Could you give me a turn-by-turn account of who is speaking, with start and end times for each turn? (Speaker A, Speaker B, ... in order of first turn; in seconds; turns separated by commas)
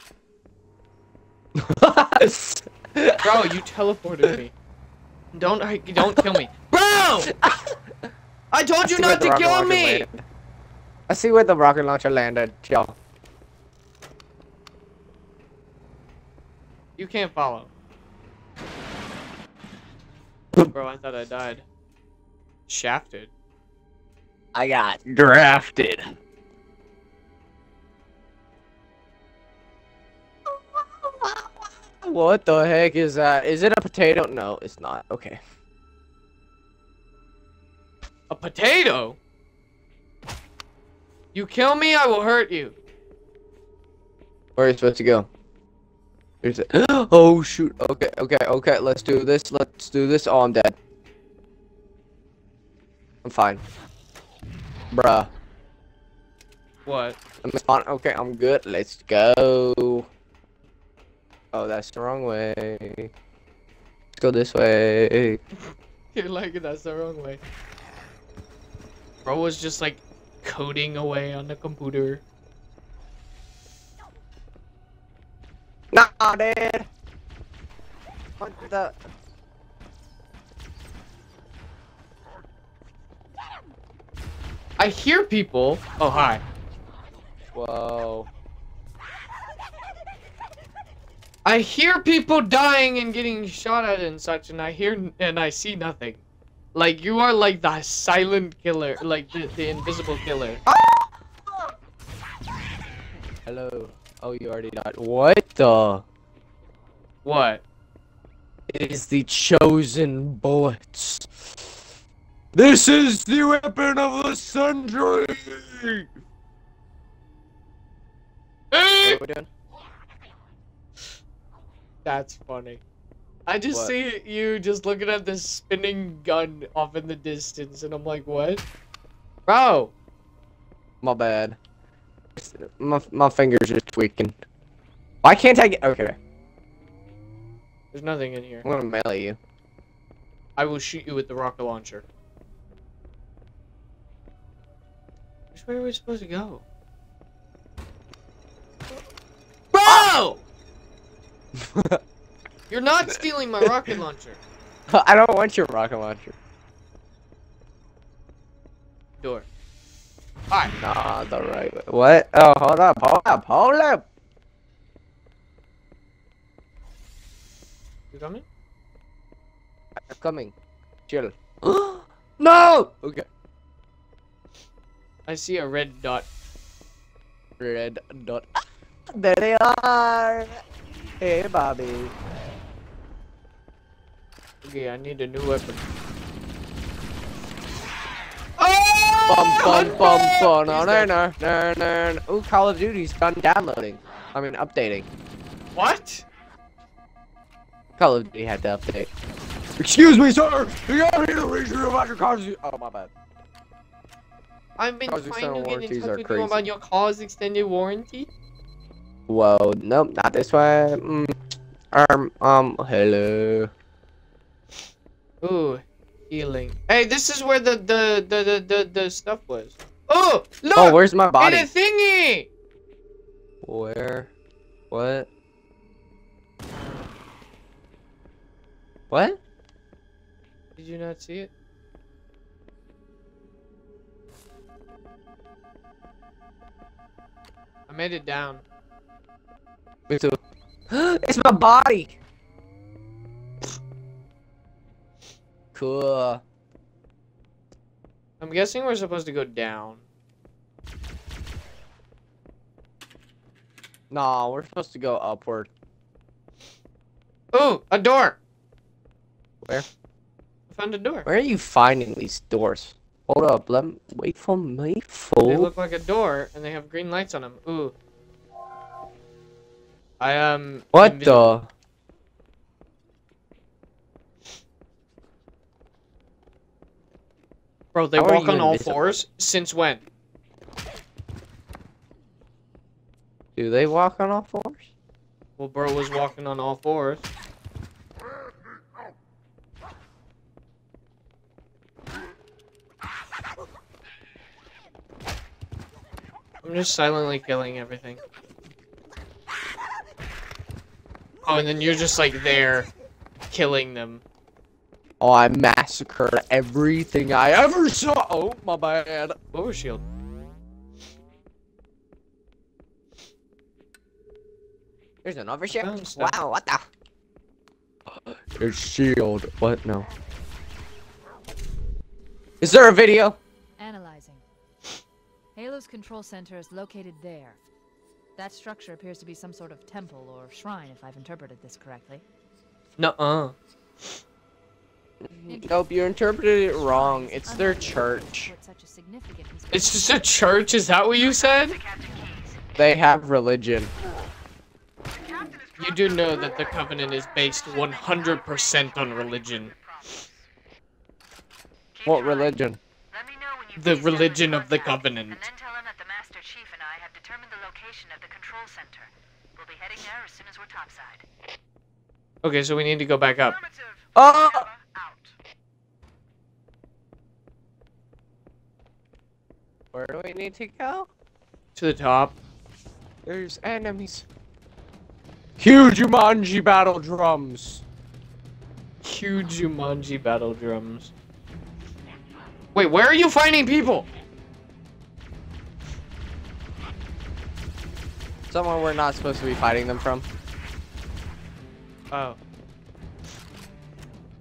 Speaker A: 1.6-3.6, Speaker B: 3.2-4.5, Speaker B: 5.3-7.3, Speaker A: 6.0-6.3, Speaker A: 7.3-7.8, Speaker B: 8.5-10.1, Speaker A: 8.9-10.2, Speaker A: 11.1-12.9, Speaker B: 17.0-17.7, Speaker B: 20.7-21.6, Speaker B: 22.7-23.3, Speaker A: 24.5-26.1, Speaker A: 30.5-35.4, Speaker B: 38.3-39.2, Speaker B: 41.3-42.8, Speaker A: 44.6-45.3, Speaker A: 46.4-50.8, Speaker A: 53.2-53.6, Speaker A: 54.9-55.3, Speaker B: 56.9-57.2, Speaker A: 57.4-60.1, Speaker A: 61.5-63.1, Speaker A: 64.2-65.4, Speaker B: 66.1-67.4, Speaker B: 69.2-72.2, Speaker A: 75.9-76.9, Speaker A: 78.4-79.0, Speaker B: 84.8-86.4, Speaker A: 87.5-88.3, Speaker B: 91.5-96.2, Speaker B: 96.7-100.6, Speaker A: 100.7-101.6, Speaker A: 103.5-106.0, Speaker B: 107.2-107.6, Speaker A: 108.7-111.8, Speaker A: 112.5-116.1, Speaker B: 118.7-119.2, Speaker A: 119.0-119.5, Speaker B: 122.0-122.8, Speaker B: 123.5-128.6, Speaker B: 129.5-129.9, Speaker A: 131.0-131.6, Speaker A: 132.4-134.4, Speaker A: 135.2-136.2, Speaker B: 137.9-138.7, Speaker A: 138.6-139.4, Speaker B: 140.6-142.1, Speaker B: 145.6-146.6, Speaker B: 149.7-150.4, Speaker A: 149.9-150.1, Speaker A: 151.6-152.0, Speaker B: 152.7-154.4, Speaker A: 153.1-153.7, Speaker A: 154.9-156.4, Speaker B: 159.2-159.5, Speaker A: 160.8-164.1, Speaker B: 168.1-168.4, Speaker A: 170.0-170.5, Speaker A: 171.1-173.3, Speaker B: 175.3-176.3, Speaker A: 177.6-180.6, Speaker A: 181.2-182.1, Speaker B: 184.6-185.8, Speaker B: 188.6-191.1, Speaker A: 189.3-195.1, Speaker B: 195.8-196.2, Speaker A: 198.0-199.1, Speaker A: 199.8-203.1, Speaker B: 204.8-208.3, Speaker A: 205.1-206.6, Speaker A: 209.3-211.3, Speaker A: 211.9-213.7, Speaker B: 215.4-222.5, Speaker A: 220.8-221.7, Speaker A: 223.6-224.3, Speaker A: 224.9-225.3, Speaker A: 229.1-229.4, Speaker B: 230.8-231.5, Speaker B: 237.9-238.6, Speaker A: 240.1-240.4, Speaker A: 240.9-242.2, Speaker A: 245.7-246.4, Speaker B: 248.4-250.0, Speaker A: 254.1-255.7, Speaker B: 257.5-258.4, Speaker B: 260.7-261.3, Speaker A: 261.3-265.7, Speaker B: 265.4-267.9, Speaker B: 270.2-271.6, Speaker A: 270.9-271.7, Speaker B: 277.9-280.0, Speaker A: 278.2-279.0, Speaker A: 283.6-284.9, Speaker B: 285.6-287.2, Speaker B: 296.6-298.2, Speaker B: 301.5-302.9, Speaker B: 303.5-304.2, Speaker A: 305.2-309.4, Speaker B: 309.5-310.0, Speaker A: 315.2-316.8, Speaker B: 315.7-316.4, Speaker A: 318.1-320.1, Speaker A: 322.6-323.4, Speaker C: 323.8-324.4, Speaker C: 325.6-327.6, Speaker C: 328.4-332.2, Speaker B: 333.0-334.2, Speaker A: 335.2-338.5, Speaker C: 335.5-335.8, Speaker C: 336.7-340.4, Speaker B: 339.7-341.8, Speaker C: 341.2-342.6, Speaker A: 342.8-343.9, Speaker C: 345.3-346.3, Speaker B: 345.8-349.7, Speaker C: 347.1-350.4, Speaker C: 351.9-352.6, Speaker A: 352.1-352.8, Speaker C: 353.1-361.2, Speaker B: 353.8-355.4, Speaker B: 362.4-363.6, Speaker C: 363.6-365.3, Speaker A: 364.1-364.7, Speaker A: 369.9-371.1, Speaker B: 371.8-372.4, Speaker A: 373.3-374.3, Speaker A: 375.6-377.8, Speaker B: 379.0-381.1, Speaker B: 382.8-384.1, Speaker A: 388.5-390.3, Speaker B: 392.1-392.4